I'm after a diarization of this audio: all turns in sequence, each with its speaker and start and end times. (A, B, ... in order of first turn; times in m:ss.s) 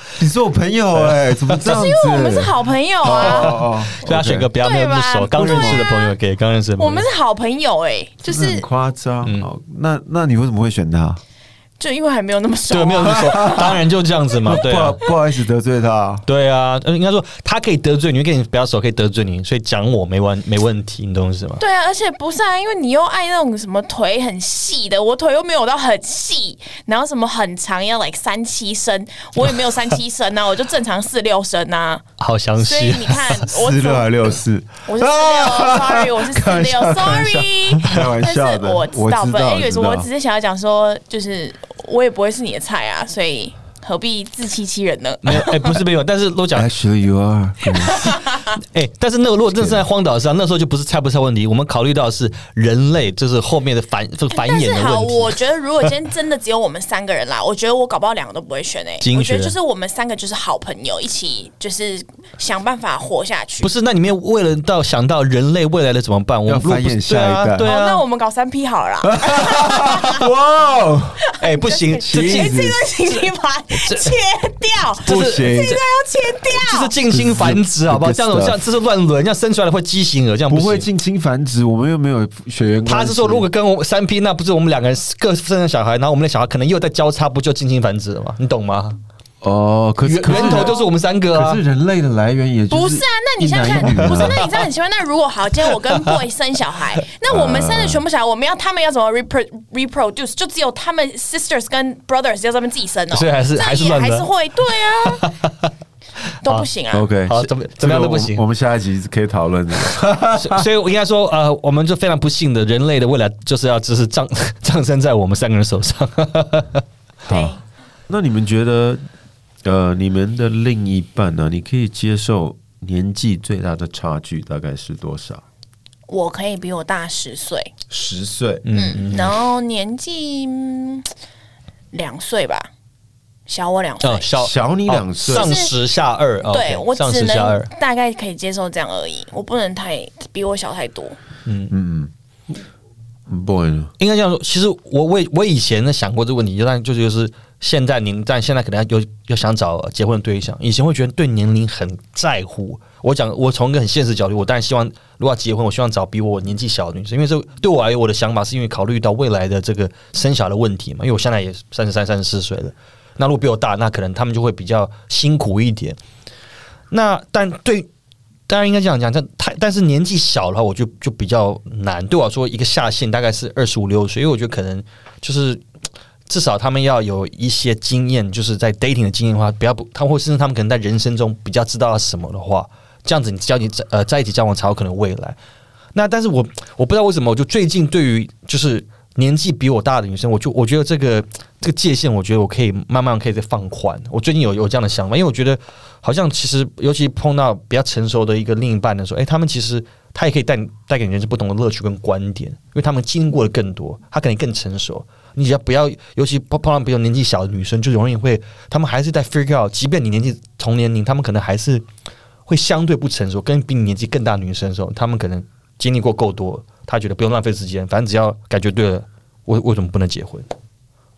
0:00.2-0:04.5 A
0:01.6-0:03.7 B
0:03.2-0:07.1 C
0:04.6-0:06.2 B
0:05.4-0:05.8 A
0:06.8-0:08.7 B
0:08.2-0:11.2 A
0:09.2-0:09.5 C
0:11.8-0:13.8 B
0:12.7-0:15.0 C
0:13.2-0:13.7 A
0:14.4-0:16.3 A
0:16.3-0:21.6 C
0:21.6-0:32.1 B
0:32.2-0:33.4 C
0:32.6-0:34.1 B
0:33.4-0:40.1 A
0:34.9-0:45.8 B
0:45.2-0:46.7 C
0:46.5-0:48.0 A
0:47.7-0:48.4 B
0:47.9-0:55.3 C
0:49.5-0:49.8 A
0:54.3-1:03.7 B
0:59.0-0:59.5 C
1:03.6-1:08.0 C
1:06.5-1:07.7 A
1:07.6-1:10.3 B
1:09.0-1:11.2 A
1:11.3-1:16.9 B
1:11.4-1:12.4 C
1:12.0-1:12.8 A
1:13.8-1:14.1 C
1:15.0-1:15.8 C
1:15.0-1:15.8 A
1:16.4-1:20.9 C
1:17.1-1:18.6 A
1:20.5-1:23.4 A
1:22.9-1:29.0 C
1:29.4-1:30.8 A
1:30.0-1:31.6 C
1:30.3-1:30.8 B
1:31.3-1:34.5 A
1:32.7-1:45.3 B
1:34.0-1:34.4 C
1:35.7-1:36.2 C
1:37.3-1:38.0 A
1:43.1-1:44.3 C
1:44.9-1:45.7 C
1:46.4-1:47.1 B
1:46.9-1:50.6 A
1:47.3-1:48.4 C
1:50.3-1:56.8 C
1:57.3-1:57.6 A
1:57.3-1:57.6 B
1:58.1-1:59.0 A
1:59.6-2:05.4 A
2:06.1-2:07.7 B
2:07.9-2:08.6 A
2:08.6-2:09.4 C
2:08.7-2:11.1 B
2:11.9-2:12.7 B
2:13.5-2:14.3 B
2:14.0-2:17.7 C
2:14.3-2:15.6 A
2:15.3-2:15.8 B
2:16.4-2:21.2 B
2:21.5-2:21.7 C
2:21.7-2:22.1 A
2:23.3-2:23.9 A
2:24.0-2:46.0 C
2:46.9-2:47.9 C
2:48.5-2:55.6 C
2:56.3-3:05.4 C
3:06.0-3:31.8 C
3:32.5-3:40.5 C